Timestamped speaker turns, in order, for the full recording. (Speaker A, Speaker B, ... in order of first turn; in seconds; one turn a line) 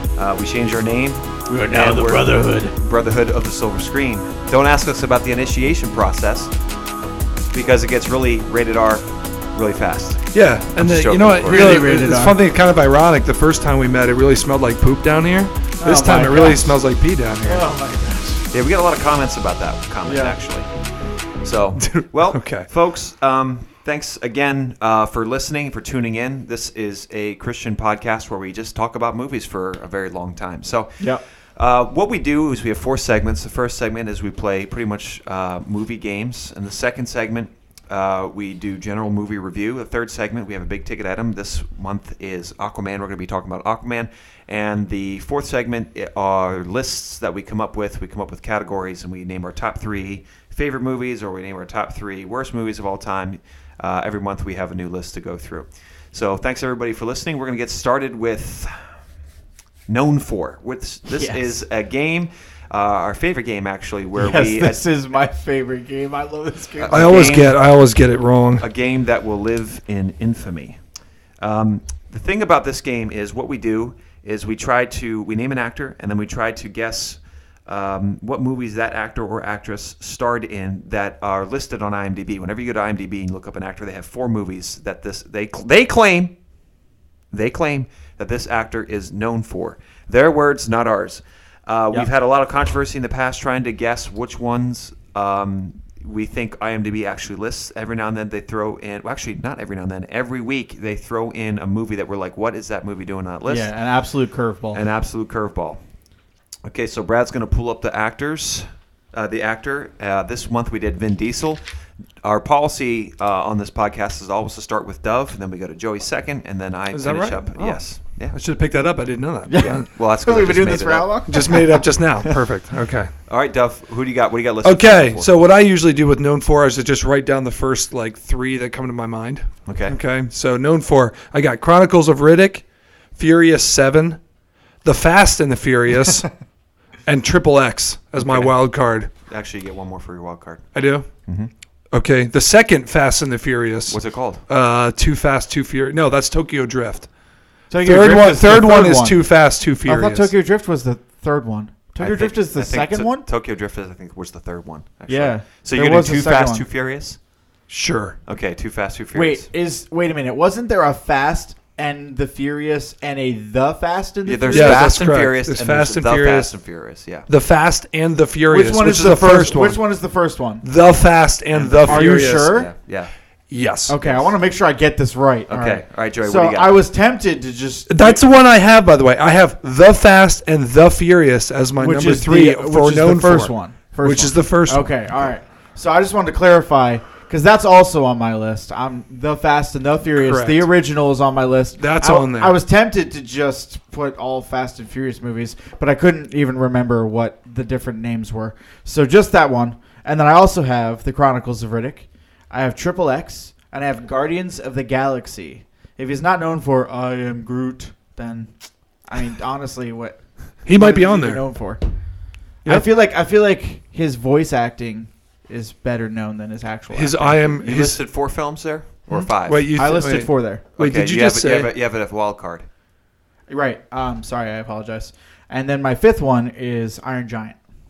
Speaker A: 0.1-6.5
Speaker B: 1.5-2.7
Speaker A: 7.5-10.2
Speaker C: 10.3-17.7
Speaker A: 10.8-11.8
Speaker B: 11.4-12.4
Speaker B: 15.8-16.7
Speaker B: 17.4-18.4
Speaker A: 18.5-20.7
Speaker B: 20.1-20.4
Speaker A: 21.4-58.8
Speaker C: 21.8-22.7
Speaker A: 59.9-64.8
Speaker B: 61.1-61.5
Speaker B: 64.2-67.5
Speaker A: 66.8-67.5
Speaker C: 66.9-68.6
Speaker A: 68.6-70.8
Speaker A: 71.4-86.3
Speaker A: 87.3-103.7
Speaker B: 103.5-104.8
Speaker A: 104.7-105.8
Speaker A: 106.7-111.6
Speaker A: 112.2-118.4
Speaker C: 116.9-119.9
Speaker B: 119.5-122.4
Speaker A: 119.6-121.2
Speaker C: 121.2-123.1
Speaker A: 123.3-125.3
Speaker C: 124.6-134.2
Speaker A: 129.6-130.0
Speaker C: 134.8-136.3
Speaker C: 137.1-139.1
Speaker A: 138.2-138.5
Speaker A: 139.3-140.7
Speaker C: 140.7-141.1
Speaker A: 141.2-141.5
Speaker C: 141.9-147.1
Speaker A: 143.9-144.4
Speaker B: 147.7-149.2
Speaker C: 147.7-150.3
Speaker B: 149.8-153.3
Speaker A: 152.0-157.2
Speaker B: 155.1-156.7
Speaker C: 157.7-158.2
Speaker A: 158.2-159.5
Speaker B: 159.1-165.0
Speaker A: 164.2-167.3
Speaker C: 164.5-166.5
Speaker C: 167.3-169.8
Speaker B: 168.5-170.6
Speaker C: 170.6-172.6
Speaker A: 171.5-173.1
Speaker B: 171.9-172.7
Speaker C: 173.5-174.0
Speaker B: 173.9-178.2
Speaker A: 174.0-174.3
Speaker A: 175.5-176.8
Speaker C: 177.9-185.2
Speaker B: 181.8-208.5
Speaker C: 190.2-190.7
Speaker C: 191.8-192.6
Speaker B: 209.0-211.8
Speaker C: 210.7-211.5
Speaker B: 212.6-217.5
Speaker C: 216.9-218.1
Speaker A: 217.6-219.7
Speaker B: 219.1-220.6
Speaker C: 219.4-221.8
Speaker A: 220.8-222.7
Speaker B: 223.5-227.6